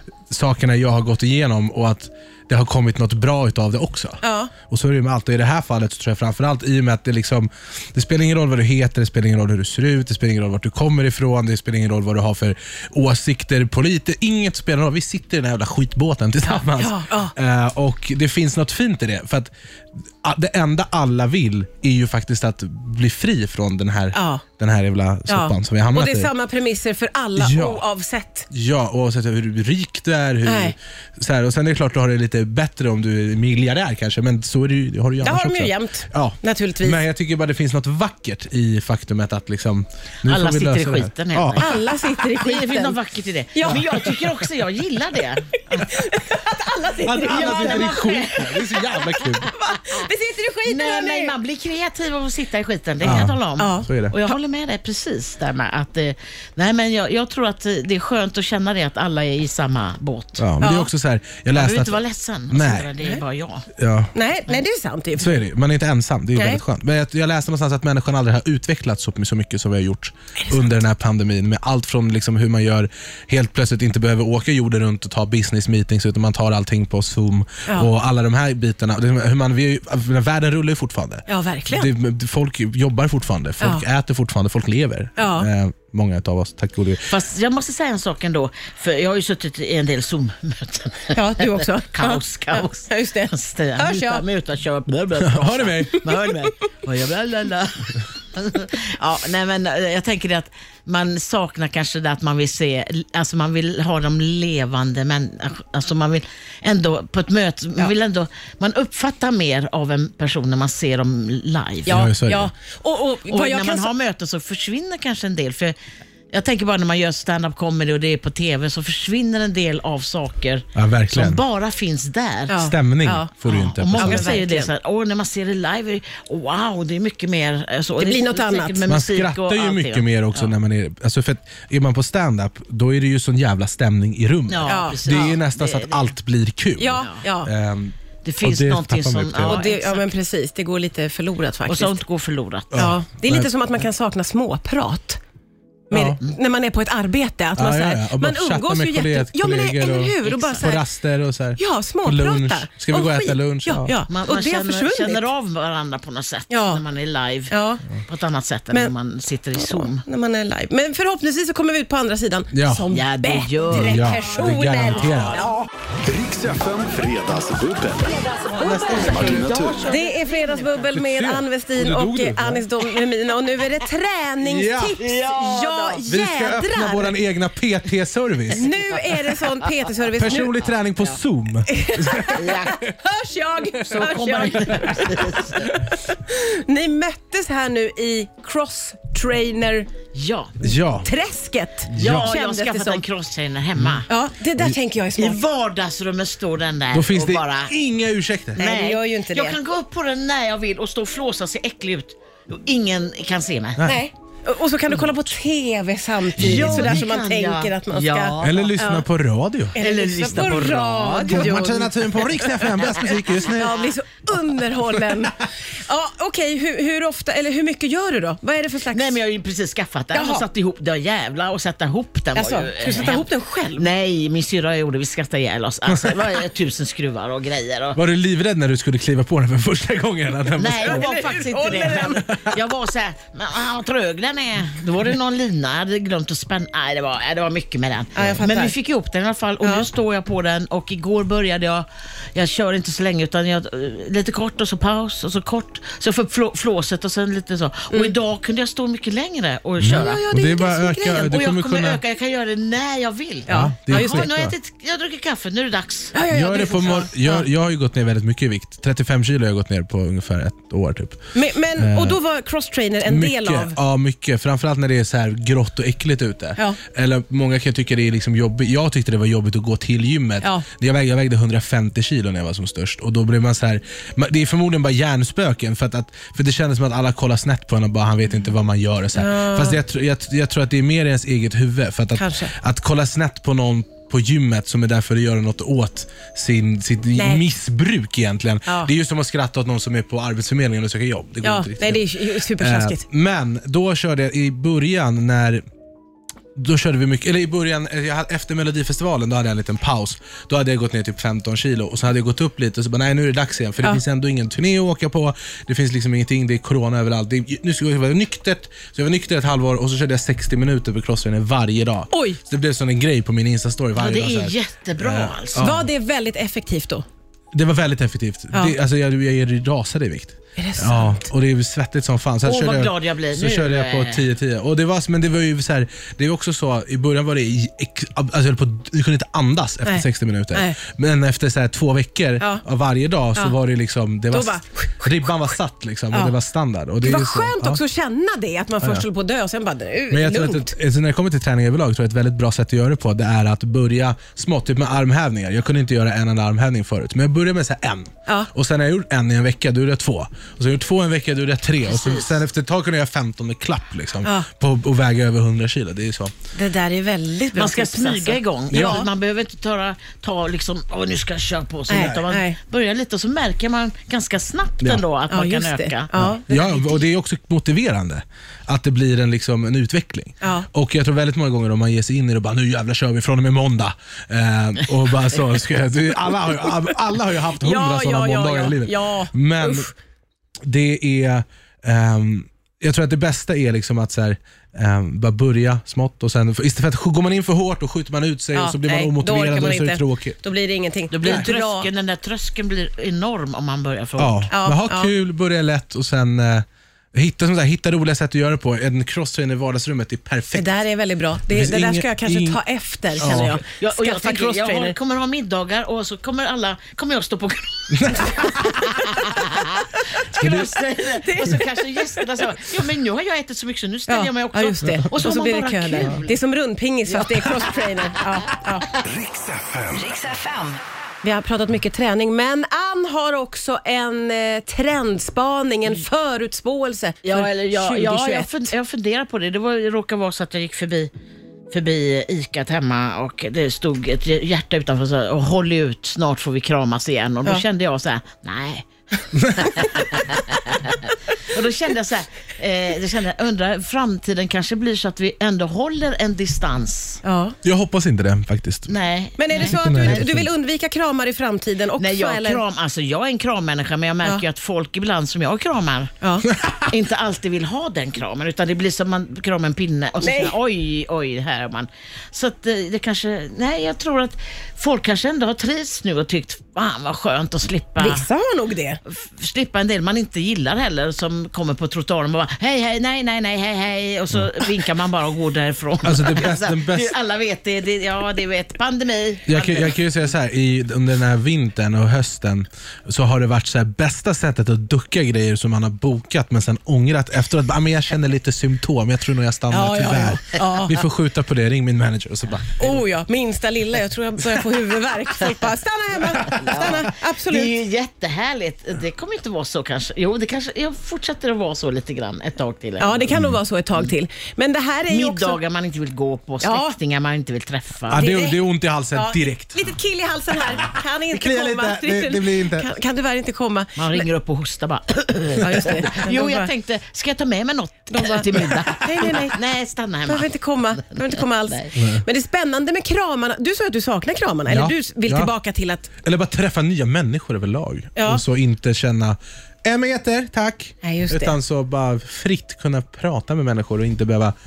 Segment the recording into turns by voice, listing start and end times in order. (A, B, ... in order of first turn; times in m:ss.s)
0:00.3-0:19.5 A
0:04.2-0:04.5 B
0:16.5-0:17.3 B
0:20.2-0:26.3 A
0:24.1-0:24.4 B
0:25.3-0:28.5 B
0:27.4-0:27.8 A
0:28.5-0:41.6 A
0:30.4-0:30.7 B
0:35.2-0:37.0 B
0:40.2-0:46.1 C
0:41.6-0:43.0 B
0:43.5-0:44.1 B
0:43.6-0:44.1 A
0:45.7-0:51.3 B
0:47.0-0:49.5 A
0:47.2-0:48.6 C
0:50.6-1:00.8 C
0:53.0-0:54.1 A
0:53.0-0:54.4 B
1:00.4-1:02.9 A
1:00.6-1:00.9 B
1:01.5-1:03.7 C
1:03.8-1:04.1 A
1:04.1-1:05.4 B
1:05.2-1:27.1 A
1:06.3-1:06.6 B
1:10.4-1:10.7 B
1:21.3-1:21.9 B
1:23.6-1:23.8 B
1:25.2-1:25.5 B
1:27.1-1:52.0 C
1:31.1-1:34.2 B
1:35.2-1:36.0 A
1:51.8-1:53.9 B
1:51.9-1:52.5 A
1:53.3-1:55.8 C
1:56.3-2:02.6 C
2:00.7-2:01.4 A
2:02.5-2:03.3 B
2:02.5-2:04.4 A
2:03.5-2:10.5 C
2:03.9-2:04.7 B
2:08.0-2:08.8 B
2:08.9-2:19.6 A
2:14.5-2:16.1 C
2:14.6-2:15.3 B
2:16.8-2:17.5 B
2:17.0-2:17.2 C
2:18.2-2:20.0 C
2:19.4-2:22.0 B
2:21.7-2:22.7 C
2:22.7-2:23.5 A
2:22.7-2:25.2 B
2:25.9-2:30.8 B
2:25.9-2:26.2 A
2:27.5-2:33.9 A
2:30.2-2:30.7 C
2:31.6-2:35.3 B
2:34.1-2:37.5 C
2:36.5-2:36.8 B
2:37.5-2:37.8 B
2:38.0-2:40.0 C
2:39.5-2:45.6 B
2:42.5-2:42.9 A
2:42.9-2:45.5 C
2:43.7-2:45.5 A
2:46.0-2:48.2 D
2:48.4-2:50.8 C
2:48.6-2:49.6 A
2:49.0-2:49.9 D
2:49.8-2:57.2 B
2:50.9-2:52.7 A
2:54.4-2:55.0 A
2:55.0-2:56.0 C
2:56.0-2:58.7 A
2:58.5-3:00.6 B
2:58.5-2:59.6 C
3:00.2-3:02.7 A
3:01.7-3:09.9 B
3:02.3-3:02.8 C
3:03.8-3:05.7 C
3:10.1-3:10.6 C
3:10.6-3:11.1 A
3:11.0-3:13.0 B
3:11.9-3:12.3 A
3:11.9-3:14.1 C
3:14.1-3:15.4 B
3:15.1-3:17.7 C
3:16.9-3:18.6 A
3:18.5-3:23.8 C
3:18.6-3:19.6 B
3:23.8-3:29.0 B
3:26.4-3:28.8 C
3:26.4-3:26.9 A
3:28.4-3:29.8 A
3:29.7-3:32.7 B
3:29.8-3:31.7 C
3:30.3-3:33.8 A
3:33.4-3:39.2 B
3:33.6-3:33.9 C
3:38.9-3:48.0 C
3:40.1-3:40.5 B
3:42.3-3:43.9 B
3:45.9-3:46.3 A
3:47.9-3:51.1 A
3:50.6-4:10.2 C
3:50.8-3:52.2 B
3:52.0-3:52.5 A
3:58.1-3:58.7 B
3:59.6-3:59.9 B
4:09.8-4:12.0 A
4:09.8-4:11.2 B
4:11.0-4:16.1 C
4:13.5-4:14.3 B
4:13.5-4:14.5 A
4:16.1-4:17.5 B
4:16.3-4:21.2 A
4:21.3-4:23.8 B
4:21.8-4:22.2 A
4:23.0-4:55.6 A
4:30.4-4:30.6 B
4:39.1-4:39.8 B
4:42.1-4:42.5 B
4:47.1-4:47.4 B
4:48.6-4:48.9 B
4:51.4-4:53.0 B
4:56.6-5:15.9 A
5:12.1-5:12.4 B
5:14.0-5:15.7 C
5:15.6-5:17.0 B
5:17.5-5:37.8 A
5:20.6-5:21.2 B
5:22.4-5:24.2 C
5:29.8-5:30.8 B
5:34.3-5:35.3 B
5:37.0-5:40.7 B
5:38.8-5:39.0 A
5:40.1-5:56.3 A
5:51.8-5:52.4 C
5:54.2-5:54.5 B
5:56.5-5:59.1 B
5:57.5-6:06.1 C
5:58.7-5:59.0 A
6:01.9-6:02.6 B
6:05.3-6:07.1 B
6:06.1-6:19.9 A
6:10.4-6:10.7 B
6:17.6-6:19.9 B
6:20.6-6:30.4 A
6:28.5-6:31.9 B
6:31.1-6:34.5 C
6:31.2-6:31.5 A
6:34.2-6:40.8 A
6:34.5-6:35.1 B
6:40.5-6:45.0 B
6:41.5-6:42.6 A
6:43.2-6:43.6 A
6:43.2-6:56.3 C
6:47.9-6:49.0 A
6:50.4-6:50.6 A
6:51.2-6:51.9 B
6:54.1-6:58.9 B
6:57.1-6:57.9 C
6:59.0-7:00.1 D
7:00.1-7:00.5 B
7:01.2-7:08.7 B
7:07.2-7:11.1 C
7:11.7-7:18.8 C
7:19.4-7:19.7 A
7:19.6-7:27.2 C
7:27.2-7:27.6 B
7:27.6-7:28.9 A
7:28.9-7:30.3 C
7:29.4-7:32.6 B
7:29.5-7:30.5 A
7:32.0-7:36.1 C
7:36.2-7:36.5 B
7:36.7-7:48.3 C
7:40.2-7:40.5 B
7:48.0-7:49.0 B
7:49.0-8:00.0 C
7:56.0-7:57.1 A
7:59.5-8:13.0 A
8:09.7-8:11.0 B
8:12.8-8:17.7 B
8:16.5-8:23.3 C
8:23.0-8:25.6 B
8:23.3-8:23.6 A
8:25.1-8:28.2 C
8:26.6-8:27.0 B
8:28.1-8:29.8 A
8:28.1-8:34.3 B
8:31.3-8:32.9 A
8:34.0-8:41.9 C
8:35.6-8:36.7 B
8:38.1-8:39.6 B
8:40.2-8:46.1 B
8:42.0-8:42.2 A
8:44.7-8:45.5 A
8:46.2-8:54.5 A
8:48.2-8:48.4 B
8:51.0-8:51.5 B